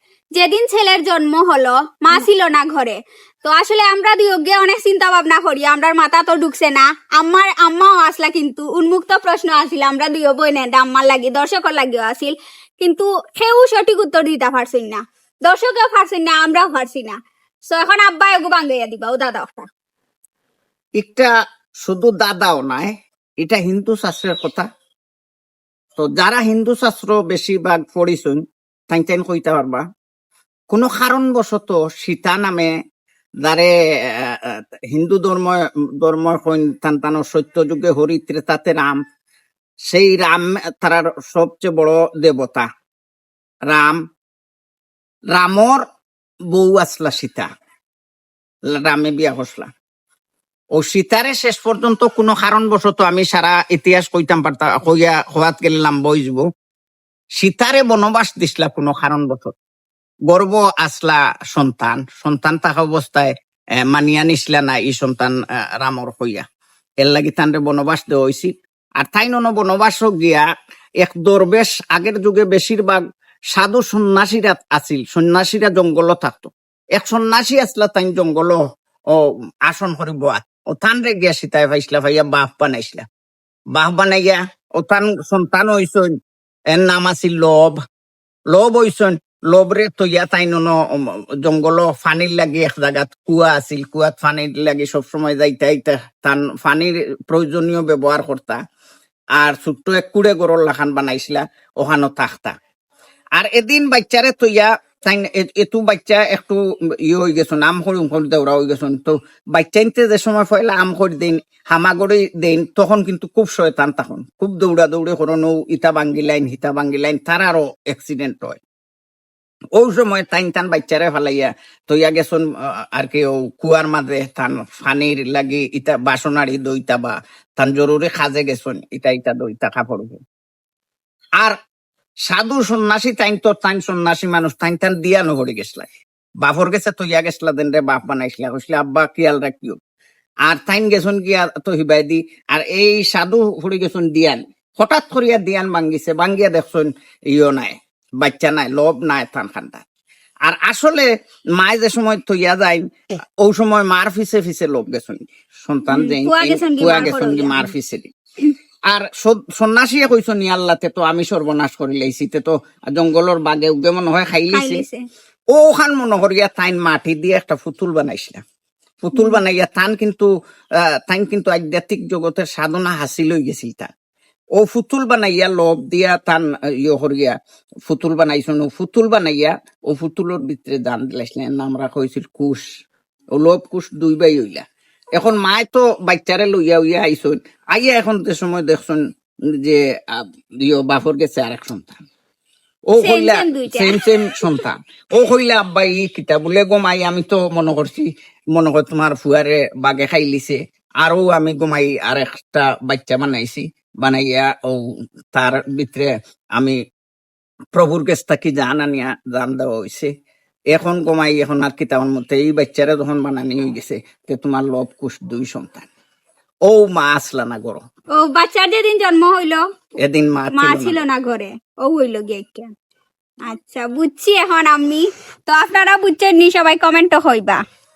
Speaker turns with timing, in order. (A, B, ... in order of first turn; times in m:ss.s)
0:00.4-0:17.2 A
0:17.7-0:19.7 A
0:21.0-0:21.3 B
0:21.8-0:22.9 B
0:23.4-0:24.6 B
0:26.0-0:29.8 B
0:30.7-0:32.7 B
0:33.4-0:39.0 B
0:39.9-0:42.7 B
0:43.7-0:44.0 B
0:45.3-0:45.8 B
0:46.5-0:47.5 B
0:48.7-0:49.7 B
0:50.8-0:56.4 B
0:57.4-0:59.5 B
1:00.3-1:03.3 B
1:03.8-1:06.4 B
1:07.0-1:10.4 B
1:11.0-1:13.0 B
1:13.5-1:18.6 B
1:19.1-1:23.0 B
1:23.7-1:26.1 B
1:26.7-1:27.8 B
1:28.5-1:38.6 B
1:39.4-1:42.5 B
1:43.4-1:58.6 B
1:59.8-2:10.2 B
2:12.3-2:15.9 B
2:16.4-2:19.8 B
2:20.5-2:29.8 B
2:30.4-2:32.8 B
2:33.4-2:38.1 B
2:35.9-2:37.7 A
2:38.9-2:44.8 B
2:44.5-2:45.0 A
2:45.5-2:48.4 B
2:49.0-2:50.3 B
2:51.1-2:53.9 B
2:54.6-3:02.6 B
3:03.4-3:04.6 B
3:05.2-3:09.0 B
3:09.6-3:12.0 B
3:12.9-3:24.8 B
3:13.0-3:14.0 A
3:25.3-3:26.8 B
3:27.7-3:30.1 B
3:30.7-3:35.9 B
3:36.7-3:37.8 B
3:38.2-3:39.6 A
3:40.0-3:41.0 B
3:40.5-3:42.7 A
3:43.5-3:47.6 A